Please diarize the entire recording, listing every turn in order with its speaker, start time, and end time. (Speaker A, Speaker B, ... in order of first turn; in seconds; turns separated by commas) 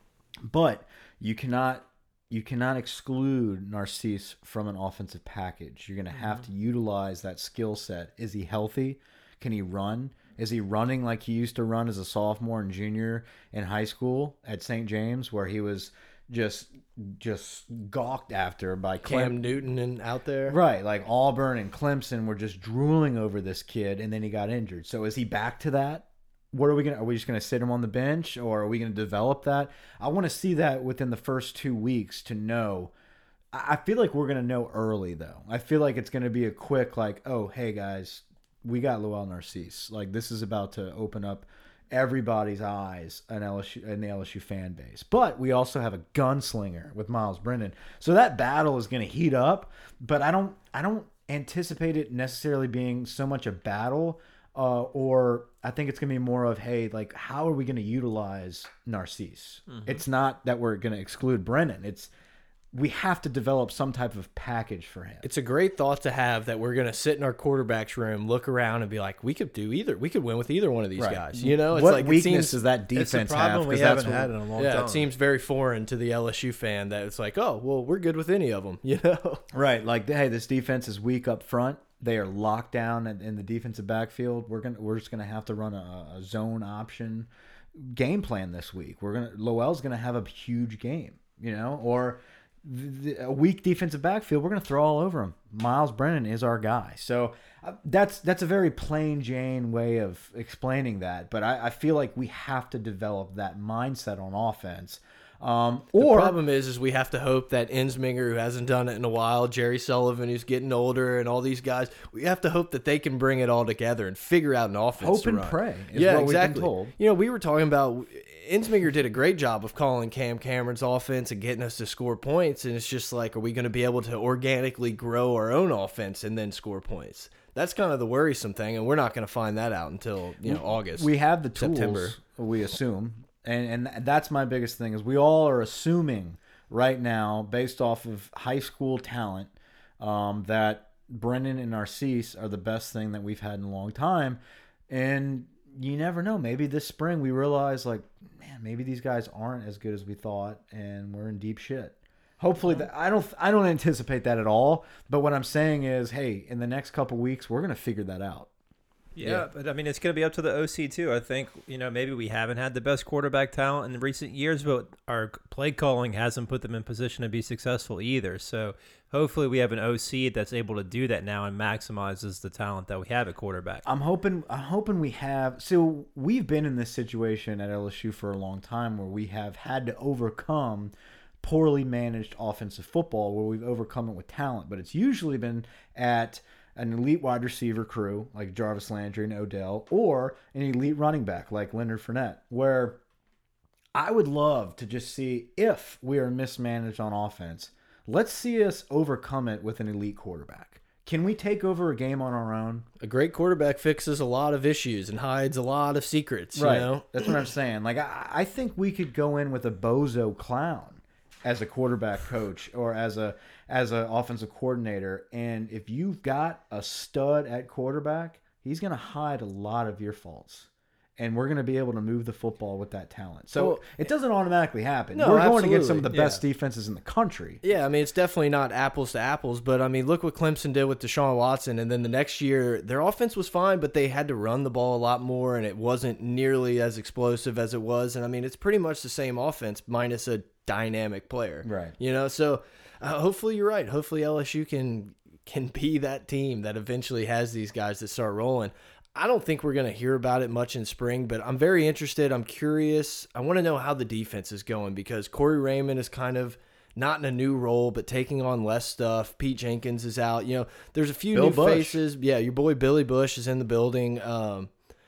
Speaker A: 0.4-19.4, Speaker B: 19.0-20.6, Speaker A: 20.5-32.9, Speaker A: 33.5-62.1, Speaker C: 59.7-60.0, Speaker A: 62.7-65.2, Speaker B: 65.2-72.6, Speaker A: 71.0-74.3, Speaker C: 72.9-75.1, Speaker B: 74.6-79.4, Speaker A: 79.5-106.4, Speaker B: 106.0-132.2, Speaker A: 115.0-116.9, Speaker A: 130.4-158.5, Speaker C: 159.2-173.8, Speaker A: 173.9-193.0, Speaker A: 193.9-202.9, Speaker B: 203.0-207.1, Speaker A: 206.6-227.6, Speaker B: 223.6-223.8, Speaker B: 225.1-226.1, Speaker C: 226.1-226.4, Speaker B: 227.6-264.7, Speaker A: 241.6-241.9, Speaker A: 261.3-262.0